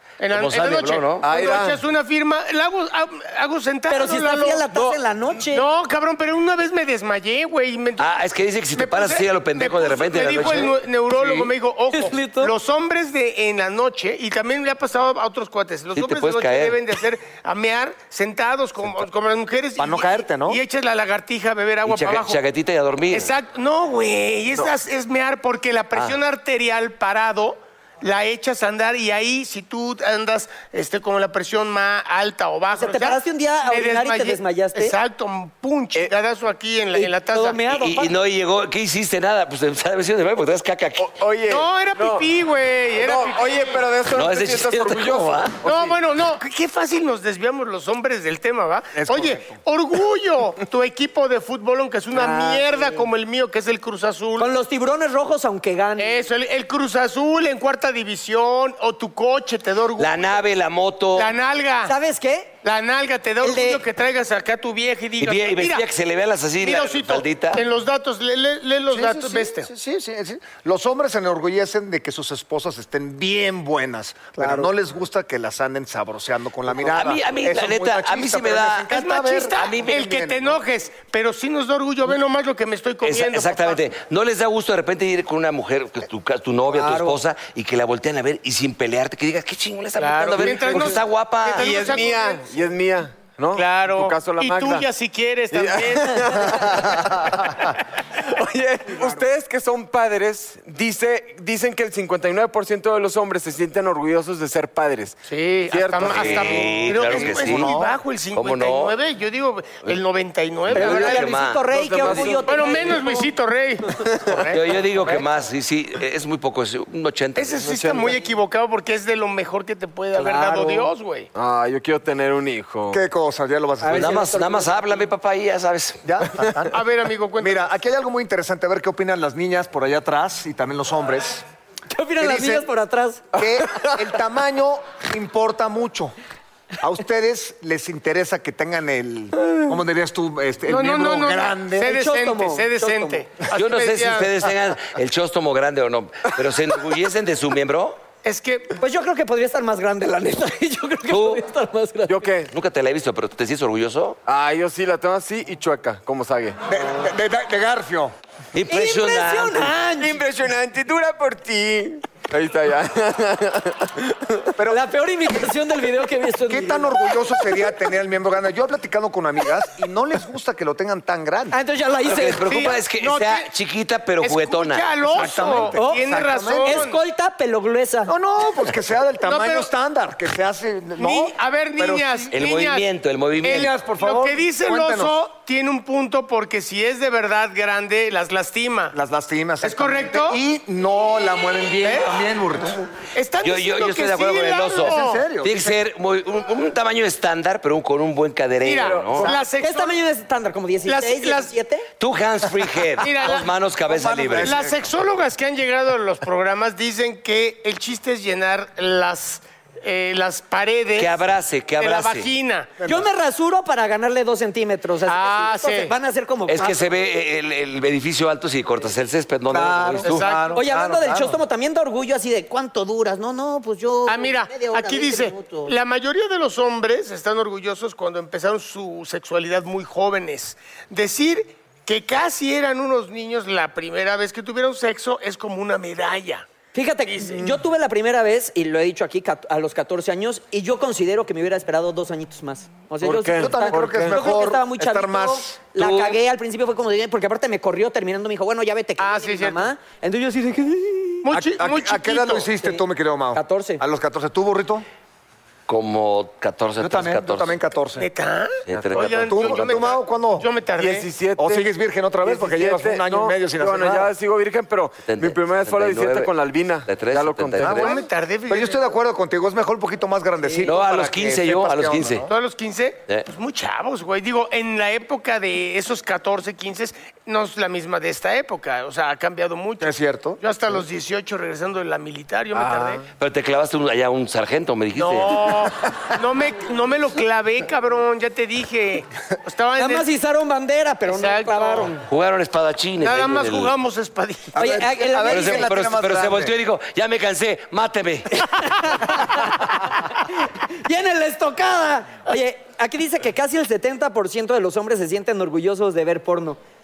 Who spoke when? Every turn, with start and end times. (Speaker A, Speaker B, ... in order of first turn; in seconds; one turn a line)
Speaker A: 0.2-4.7
Speaker B: 0.3-1.2
Speaker C: 1.2-1.8
Speaker D: 3.9-5.6
Speaker A: 5.5-8.2
Speaker B: 8.0-11.5
Speaker A: 8.8-22.4
Speaker D: 11.9-12.5
Speaker B: 15.9-16.8
Speaker E: 19.8-20.6
Speaker B: 21.9-23.3
Speaker A: 23.1-37.6
Speaker D: 32.7-34.9
Speaker D: 36.9-38.1
Speaker B: 37.7-41.1
Speaker C: 41.0-42.3
Speaker A: 41.5-43.8
Speaker C: 42.9-46.0
Speaker B: 44.1-45.6
Speaker A: 45.6-54.5
Speaker E: 48.9-49.6
Speaker D: 52.1-53.1
Speaker D: 54.4-56.3
Speaker A: 56.0-60.4
Speaker B: 60.0-61.3
Speaker A: 61.1-61.9
Speaker D: 61.9-62.6
Speaker A: 62.6-65.9
Speaker D: 63.4-63.8
Speaker B: 65.2-67.6
Speaker A: 66.6-69.7
Speaker E: 68.9-80.6
Speaker D: 74.4-74.7
Speaker B: 76.8-79.0
Speaker A: 78.9-83.9
Speaker B: 79.5-79.9
Speaker B: 83.0-91.7
Speaker D: 86.8-87.2
Speaker A: 90.0-92.4
Speaker C: 90.4-91.0
Speaker C: 91.5-94.9
Speaker A: 93.5-96.9
Speaker C: 95.5-97.6
Speaker C: 98.2-106.8
Speaker A: 105.3-111.4
Speaker B: 106.0-107.8
Speaker E: 106.7-108.0
Speaker B: 108.3-109.0
Speaker B: 110.7-112.1
Speaker C: 110.7-111.1
Speaker D: 110.7-113.3
Speaker C: 111.6-113.1
Speaker A: 112.4-113.8
Speaker C: 113.9-114.6
Speaker B: 114.5-117.7
Speaker A: 117.4-121.3
Speaker C: 117.6-118.3
Speaker D: 120.1-120.9
Speaker C: 121.3-123.0
Speaker E: 122.9-124.2
Speaker D: 123.8-124.8
Speaker B: 123.9-126.0
Speaker E: 126.0-126.8
Speaker A: 126.7-127.7
Speaker E: 127.4-131.4
Speaker D: 131.9-133.3
Speaker E: 132.2-132.7
Speaker E: 133.3-136.2
Speaker C: 133.4-133.9
Speaker E: 136.8-141.9
Speaker A: 140.7-144.5
Speaker D: 141.8-143.2
Speaker B: 143.5-148.0
Speaker A: 148.2-148.8
Speaker D: 148.8-152.3
Speaker B: 151.1-151.4
Speaker C: 152.1-152.5
Speaker B: 152.5-154.2
Speaker C: 154.3-156.6
Speaker E: 156.7-158.1
Speaker B: 158.5-159.7
Speaker D: 158.7-160.2
Speaker C: 160.0-164.5
Speaker E: 164.6-164.8
Speaker D: 164.7-167.6
Speaker E: 166.5-171.6
Speaker D: 171.5-172.5
Speaker B: 172.1-174.9
Speaker A: 172.4-173.5
Speaker A: 174.2-177.0
Speaker E: 175.1-176.9
Speaker D: 175.7-178.1
Speaker E: 178.1-182.3
Speaker A: 179.2-179.7
Speaker A: 181.0-182.9
Speaker B: 182.3-183.8
Speaker A: 183.4-189.0
Speaker E: 183.4-185.2
Speaker E: 188.9-192.8
Speaker A: 189.6-190.4
Speaker A: 191.8-192.1
Speaker A: 193.1-195.2
Speaker B: 193.4-199.3
Speaker E: 194.8-195.8
Speaker A: 198.6-199.9
Speaker C: 198.8-199.5
Speaker D: 199.5-201.9
Speaker A: 200.9-201.5
Speaker B: 202.0-204.6
Speaker A: 203.0-203.5
Speaker E: 203.9-204.9
Speaker A: 204.4-211.1
Speaker B: 211.0-212.3
Speaker A: 211.8-212.7
Speaker E: 212.8-213.1
Speaker D: 212.8-216.8
Speaker A: 215.1-215.9
Speaker B: 216.5-220.3
Speaker E: 219.5-221.4
Speaker A: 220.0-220.6
Speaker D: 220.5-225.7
Speaker A: 224.1-236.5
Speaker D: 236.7-251.3
Speaker A: 237.1-237.4
Speaker C: 243.0-244.2
Speaker E: 243.3-245.6
Speaker B: 245.8-246.2
Speaker A: 249.0-249.7
Speaker A: 251.2-252.5
Speaker E: 251.3-254.8
Speaker D: 253.3-253.8
Speaker B: 255.7-257.6
Speaker E: 256.8-258.1
Speaker A: 258.0-261.1
Speaker B: 258.7-259.8
Speaker C: 258.7-259.2
Speaker E: 259.0-260.5
Speaker C: 260.8-261.7
Speaker E: 261.4-264.1
Speaker C: 262.2-268.0
Speaker B: 265.1-266.3
Speaker B: 266.9-267.9
Speaker E: 267.6-272.3
Speaker A: 267.8-268.9
Speaker B: 270.6-272.3
Speaker A: 272.3-283.0
Speaker E: 279.8-280.4
Speaker C: 282.5-283.0
Speaker B: 283.2-285.4
Speaker A: 284.9-290.1
Speaker D: 289.8-292.0
Speaker A: 291.1-292.0
Speaker B: 292.1-293.7
Speaker A: 293.0-294.6
Speaker E: 294.5-296.5
Speaker D: 294.6-295.7
Speaker B: 295.3-298.5
Speaker D: 298.4-306.6